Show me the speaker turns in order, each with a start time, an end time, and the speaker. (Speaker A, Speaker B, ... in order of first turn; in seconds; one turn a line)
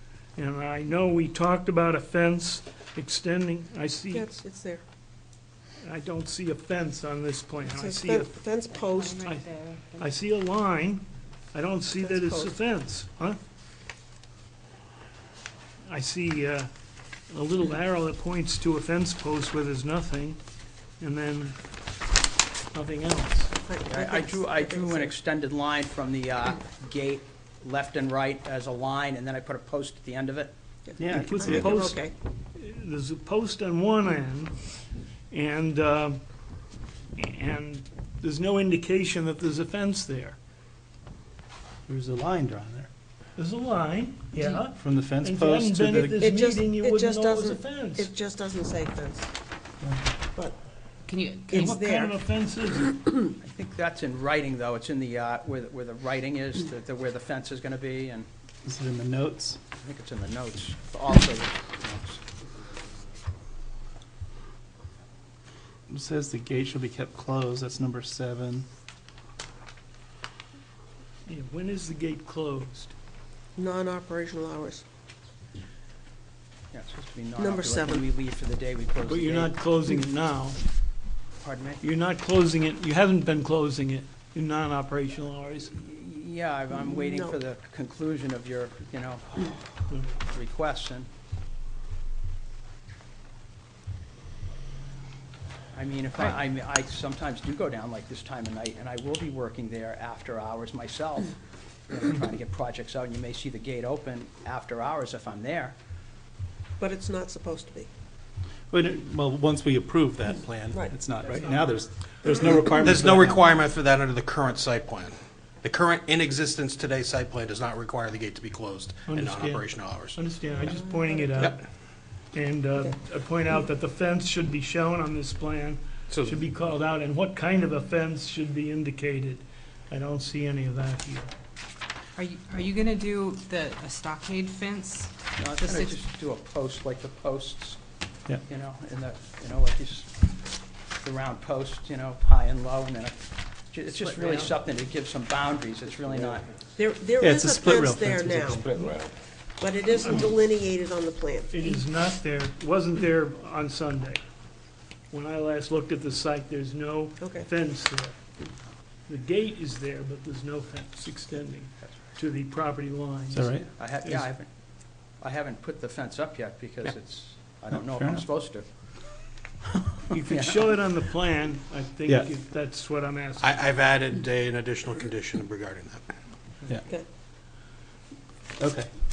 Speaker A: 0.3-4.3
Speaker B: 4.1-4.8
Speaker A: 5.8-8.3
Speaker B: 7.7-9.2
Speaker C: 8.7-10.1
Speaker A: 9.2-13.4
Speaker B: 12.0-12.5
Speaker A: 15.8-16.7
Speaker A: 17.3-20.4
Speaker A: 21.0-21.6
Speaker A: 22.7-23.5
Speaker B: 23.6-25.1
Speaker D: 23.9-30.5
Speaker B: 30.9-32.1
Speaker E: 31.0-31.9
Speaker A: 31.1-34.5
Speaker A: 35.3-36.2
Speaker A: 37.2-40.4
Speaker E: 41.9-42.9
Speaker A: 43.4-48.1
Speaker E: 44.7-46.2
Speaker B: 45.9-49.3
Speaker C: 51.1-51.7
Speaker B: 51.5-52.1
Speaker A: 51.5-53.0
Speaker D: 53.4-58.3
Speaker E: 58.6-59.6
Speaker D: 59.8-62.2
Speaker E: 65.9-68.7
Speaker A: 71.3-72.9
Speaker B: 73.6-74.8
Speaker D: 76.7-79.5
Speaker B: 77.4-78.1
Speaker A: 79.1-80.6
Speaker D: 81.4-81.8
Speaker A: 81.8-85.7
Speaker D: 85.7-89.6
Speaker B: 86.8-87.4
Speaker D: 90.2-91.1
Speaker D: 95.7-101.4
Speaker D: 101.9-105.8
Speaker B: 106.8-107.9
Speaker E: 108.7-113.4
Speaker F: 112.6-120.3
Speaker A: 119.1-121.6
Speaker B: 120.6-121.5
Speaker A: 122.3-131.3
Speaker F: 126.1-126.5
Speaker C: 132.2-136.0
Speaker D: 135.4-137.8
Speaker D: 138.4-140.1
Speaker D: 141.0-143.2
Speaker D: 143.7-146.5
Speaker B: 146.8-148.6
Speaker E: 147.2-148.8
Speaker F: 148.7-149.1
Speaker B: 149.6-151.8
Speaker A: 150.0-150.3
Speaker A: 151.5-154.2
Speaker A: 155.1-158.2
Speaker B: 157.2-157.4
Speaker A: 159.1-164.3
Speaker E: 163.3-163.7
Speaker D: 163.8-164.5
Speaker D: 165.2-168.7
Speaker E: 167.7-168.2
Speaker A: 170.1-173.7
Speaker D: 170.3-170.7
Speaker F: 173.4-176.0
Speaker E: 178.6-178.9